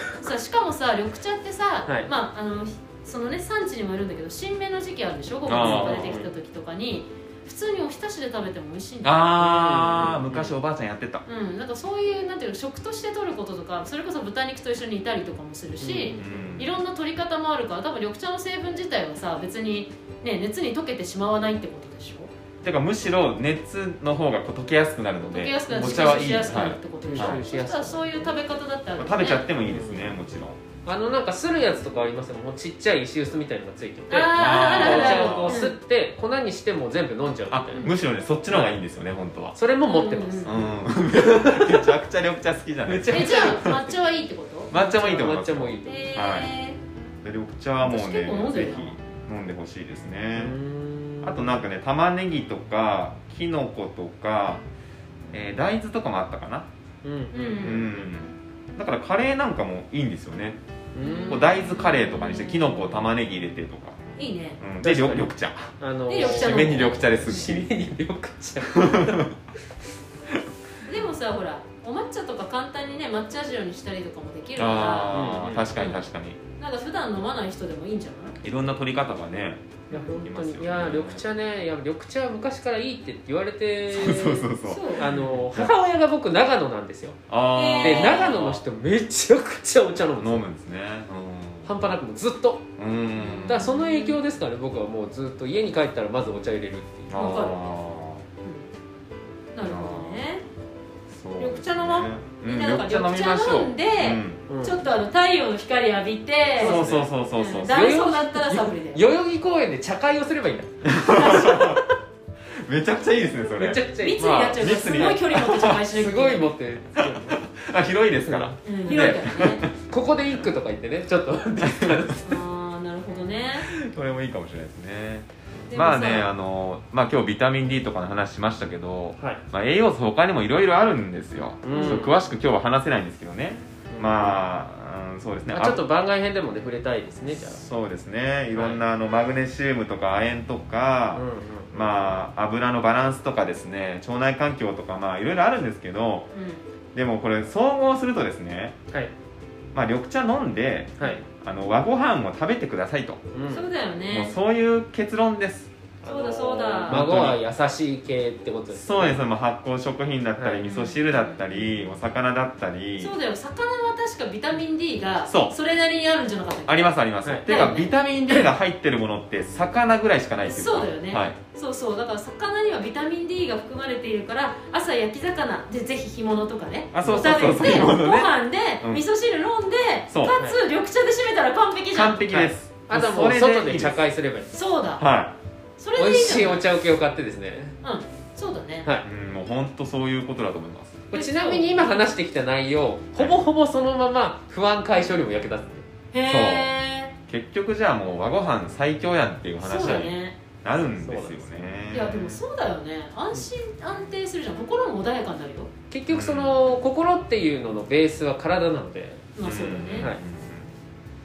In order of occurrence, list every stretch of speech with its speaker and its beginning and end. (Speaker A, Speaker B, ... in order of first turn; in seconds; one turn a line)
Speaker A: 0.2-9.3
Speaker B: 5.5-6.2
Speaker C: 5.5-6.3
Speaker B: 9.0-11.2
Speaker C: 9.4-10.6
Speaker A: 11.3-22.3
Speaker C: 15.8-16.6
Speaker B: 16.2-16.7
Speaker B: 22.6-27.4
Speaker A: 25.3-29.5
Speaker C: 25.7-28.4
Speaker B: 29.0-30.6
Speaker C: 29.6-30.2
Speaker C: 30.9-37.9
Speaker A: 34.1-35.8
Speaker B: 34.3-35.6
Speaker B: 37.5-39.6
Speaker C: 38.5-38.8
Speaker C: 39.5-41.9
Speaker A: 39.9-40.7
Speaker B: 40.5-43.7
Speaker C: 42.9-43.8
Speaker A: 43.1-44.7
Speaker B: 44.7-46.5
Speaker C: 44.7-46.0
Speaker A: 45.9-46.8
Speaker B: 47.2-50.5
Speaker A: 47.8-49.0
Speaker C: 50.4-51.6
Speaker B: 51.2-54.6
Speaker B: 55.3-56.7
Speaker C: 57.0-58.1
Speaker A: 57.3-57.9
Speaker B: 57.5-60.6
Speaker C: 60.9-61.5
Speaker A: 61.0-63.1
Speaker B: 61.3-64.0
Speaker A: 64.2-64.6
Speaker B: 64.6-67.7
Speaker C: 64.8-69.3
Speaker A: 66.1-67.5
Speaker A: 70.8-75.2
Speaker B: 74.6-76.4
Speaker C: 75.1-75.8
Speaker A: 75.8-76.1
Speaker A: 76.6-78.4
Speaker B: 78.4-81.2
Speaker C: 79.9-90.5
Speaker B: 83.9-85.7
Speaker A: 84.7-85.1
Speaker B: 87.3-88.6
Speaker A: 87.5-88.4
Speaker B: 90.2-91.7
Speaker C: 91.7-92.7
Speaker B: 92.8-93.7
Speaker A: 93.1-94.2
Speaker C: 93.5-97.3
Speaker B: 97.1-98.2
Speaker A: 97.1-97.7
Speaker A: 98.4-98.7
Speaker A: 99.5-100.4
Speaker B: 99.6-100.3
Speaker B: 101.1-104.4
Speaker A: 101.4-109.0
Speaker C: 104.5-104.8
Speaker C: 106.6-107.1
Speaker B: 106.6-107.9
Speaker C: 107.7-111.7
Speaker B: 110.8-111.8
Speaker A: 111.1-111.8
Speaker B: 112.7-115.8
Speaker C: 113.5-115.2
Speaker A: 114.0-116.5
Speaker C: 115.9-117.5
Speaker B: 117.0-119.7
Speaker C: 118.2-119.1
Speaker A: 118.7-119.7
Speaker C: 119.7-122.4
Speaker B: 121.6-122.0
Speaker A: 122.2-123.7
Speaker B: 123.7-135.8
Speaker A: 125.7-126.3
Speaker C: 131.6-132.2
Speaker A: 131.7-132.1
Speaker C: 133.9-134.5
Speaker C: 135.5-137.6
Speaker B: 137.3-146.3
Speaker C: 138.5-138.8
Speaker C: 141.2-142.2
Speaker A: 146.3-146.6
Speaker B: 146.9-148.8
Speaker B: 149.7-153.2
Speaker C: 153.3-153.7
Speaker A: 153.5-154.4
Speaker B: 154.1-155.7
Speaker C: 156.0-159.2
Speaker A: 156.0-157.1
Speaker B: 156.9-157.4
Speaker B: 158.7-163.1
Speaker C: 160.4-160.7
Speaker A: 160.6-162.0
Speaker A: 163.0-166.9
Speaker B: 165.3-165.6
Speaker B: 166.7-171.4
Speaker C: 167.2-167.6
Speaker A: 167.4-167.9
Speaker A: 170.4-182.3
Speaker B: 176.9-179.1
Speaker C: 177.0-177.6
Speaker B: 180.1-180.4
Speaker B: 181.9-184.0
Speaker C: 182.3-184.5
Speaker A: 184.5-185.0
Speaker B: 185.0-185.4
Speaker A: 185.8-186.7
Speaker C: 186.0-187.8
Speaker A: 187.8-188.9
Speaker B: 189.0-191.0
Speaker C: 191.1-195.8
Speaker A: 191.1-192.0
Speaker B: 193.2-193.4
Speaker A: 196.1-197.1
Speaker B: 196.2-196.7
Speaker B: 197.3-202.4
Speaker A: 199.6-200.4
Speaker C: 201.0-201.6
Speaker A: 201.9-205.7
Speaker C: 205.9-210.2
Speaker B: 206.1-206.6
Speaker A: 209.3-210.1
Speaker B: 209.4-210.7